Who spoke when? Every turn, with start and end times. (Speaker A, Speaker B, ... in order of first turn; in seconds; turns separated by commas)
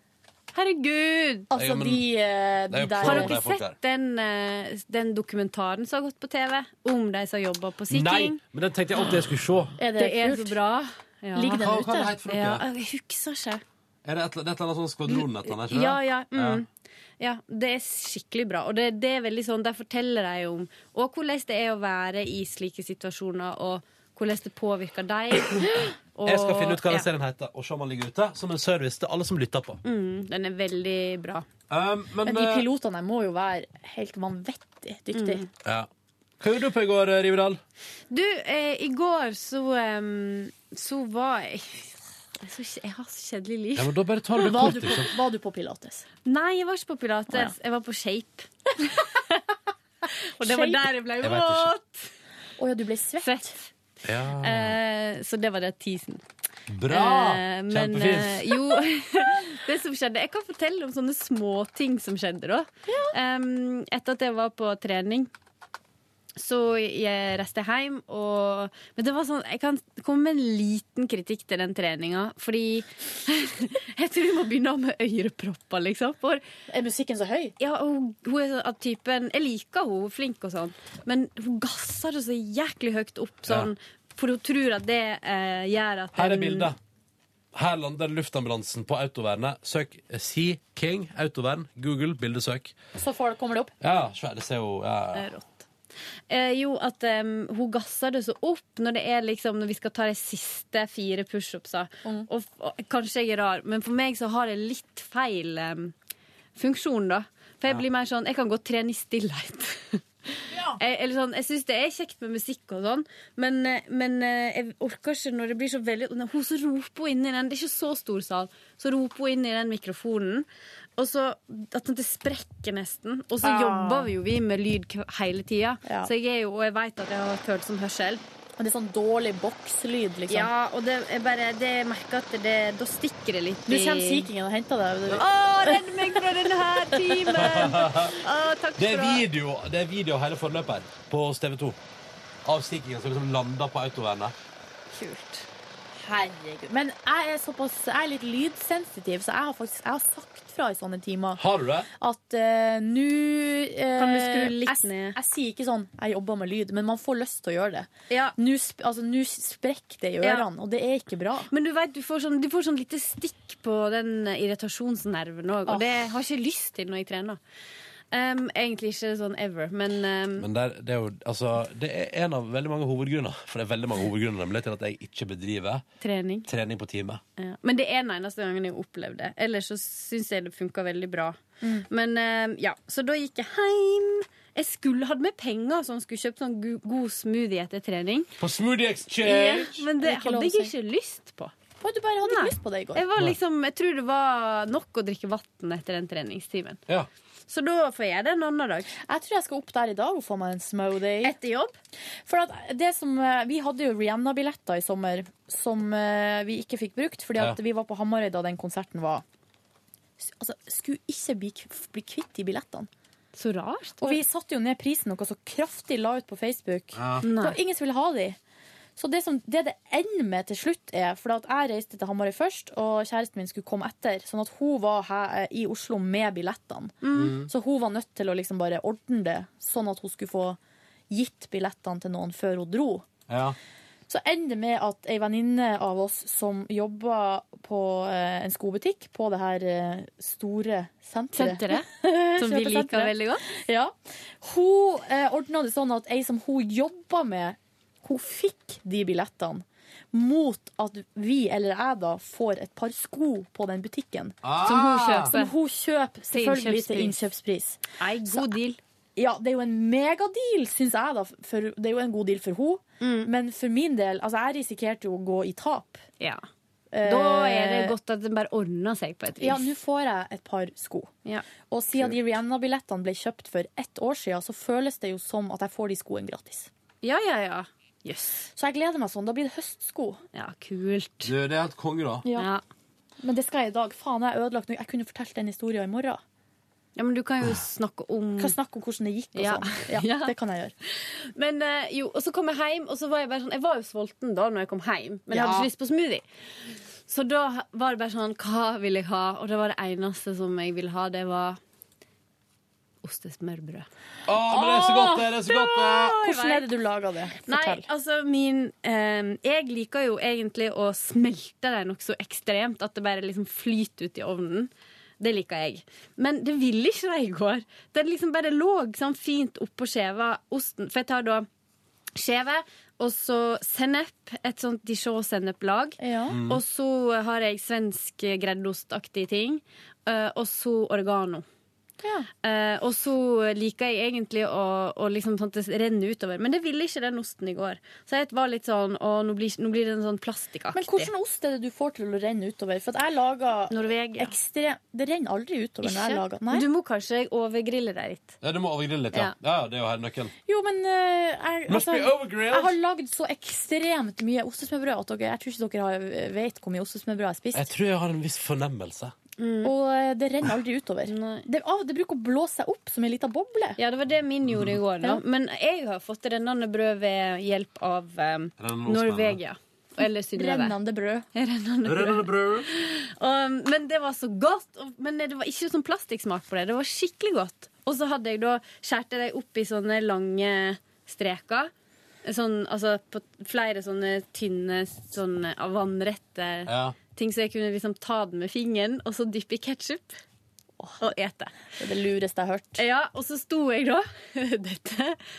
Speaker A: 0.5-1.5, Speaker B: 1.5-3.4, Speaker C: 1.5-2.1, Speaker C: 2.7-3.8, Speaker A: 3.0-8.4, Speaker C: 7.9-9.8, Speaker B: 9.8-10.6, Speaker A: 9.8-11.7, Speaker B: 11.3-12.1, Speaker C: 11.5-12.6, Speaker A: 12.3-13.6, Speaker C: 14.1-16.6, Speaker A: 15.1-16.7, Speaker A: 17.2-27.1, Speaker C: 26.3-29.8, Speaker A: 29.8-31.4, Speaker C: 31.7-32.7, Speaker B: 32.2-35.5, Speaker A: 35.1-35.5, Speaker C: 35.6-35.9, Speaker C: 36.4-37.6, Speaker A: 38.1-43.9, Speaker C: 43.8-45.1, Speaker B: 44.4-46.1, Speaker A: 46.2-49.4, Speaker A: 50.4-52.1, Speaker B: 50.4-50.9, Speaker C: 51.2-51.7, Speaker B: 52.6-53.5, Speaker A: 53.2-53.7, Speaker C: 54.0-54.8, Speaker A: 54.4-56.2, Speaker C: 56.7-58.8, Speaker A: 56.9-65.3, Speaker B: 62.9-63.1, Speaker A: 66.4-76.4, Speaker B: 76.7-77.5, Speaker A: 77.6-86.7, Speaker C: 86.2-86.8, Speaker C: 87.5-92.8, Speaker B: 93.0-93.7, Speaker C: 93.8-95.3, Speaker A: 95.1-95.7, Speaker A: 96.3-105.9, Speaker A: 106.6-110.0, Speaker A: 110.8-120.5, Speaker A: 121.0-128.2, Speaker B: 123.4-124.1, Speaker B: 125.8-126.1, Speaker B: 128.6-130.5, Speaker A: 130.3-134.3, Speaker B: 133.7-136.2, Speaker A: 135.1-139.2, Speaker B: 137.0-137.4, Speaker C: 137.3-138.2, Speaker C: 138.8-141.8, Speaker C: 142.4-144.3, Speaker A: 144.9-145.5, Speaker B: 146.0-151.4, Speaker C: 151.4-151.9, Speaker B: 152.0-161.5, Speaker A: 154.0-155.2, Speaker A: 158.1-158.3, Speaker A: 160.2-160.5, Speaker A: 161.5-167.4, Speaker A: 168.1-170.5, Speaker C: 170.4-175.8, Speaker A: 176.0-176.5, Speaker C: 176.5-177.2, Speaker A: 177.4-181.4, Speaker A: 181.9-188.3, Speaker C: 188.4-189.8, Speaker B: 189.2-190.7, Speaker A: 189.3-191.5, Speaker B: 191.8-193.1, Speaker A: 192.2-196.8, Speaker A: 197.5-198.9, Speaker B: 199.0-201.3, Speaker A: 201.2-201.8, Speaker B: 202.3-209.2, Speaker B: 210.2-212.9, Speaker A: 213.3-214.2, Speaker B: 214.0-218.4, Speaker C: 216.9-217.2, Speaker A: 217.2-217.6, Speaker B: 219.0-230.6, Speaker A: 227.0-227.4, Speaker C: 227.1-227.5, Speaker B: 231.1-233.1, Speaker C: 233.3-233.6, Speaker B: 234.1-258.5, Speaker A: 241.3-243.4, Speaker C: 254.4-255.3, Speaker A: 254.6-255.5, Speaker A: 256.3-257.2, Speaker A: 258.0-258.8, Speaker B: 259.2-266.0, Speaker A: 263.0-263.3, Speaker B: 266.9-267.9, Speaker A: 267.0-269.7, Speaker B: 269.4-271.1, Speaker B: 271.7-276.7, Speaker A: 277.0-278.5, Speaker B: 278.6-280.2, Speaker A: 280.4-281.3, Speaker C: 281.2-282.2, Speaker A: 282.3-282.6, Speaker B: 283.2-286.2, Speaker A: 287.0-288.6, Speaker B: 288.4-290.7, Speaker A: 289.4-290.3, Speaker A: 290.9-296.2, Speaker B: 295.3-295.6, Speaker A: 297.1-301.6, Speaker A: 303.0-303.9, Speaker C: 304.3-306.2, Speaker B: 304.5-307.9, Speaker A: 305.7-306.7, Speaker A: 307.5-321.5, Speaker A: 322.2-331.4, Speaker B: 326.0-326.4, Speaker C: 326.3-326.6, Speaker B: 332.0-332.3, Speaker A: 332.4-341.1, Speaker B: 340.7-346.7, Speaker A: 343.7-344.3, Speaker A: 345.8-348.4, Speaker C: 348.4-350.3, Speaker B: 350.5-357.7, Speaker C: 351.7-352.8, Speaker C: 357.5-359.1, Speaker A: 359.4-359.7, Speaker B: 359.6-363.8, Speaker A: 361.1-361.5, Speaker A: 363.8-370.8, Speaker C: 364.5-364.8, Speaker C: 368.6-369.4, Speaker B: 370.0-371.3, Speaker A: 371.4-381.7, Speaker C: 371.8-372.7, Speaker A: 382.2-390.2, Speaker C: 386.7-387.0, Speaker A: 391.0-391.5, Speaker B: 391.8-392.8, Speaker A: 392.8-395.2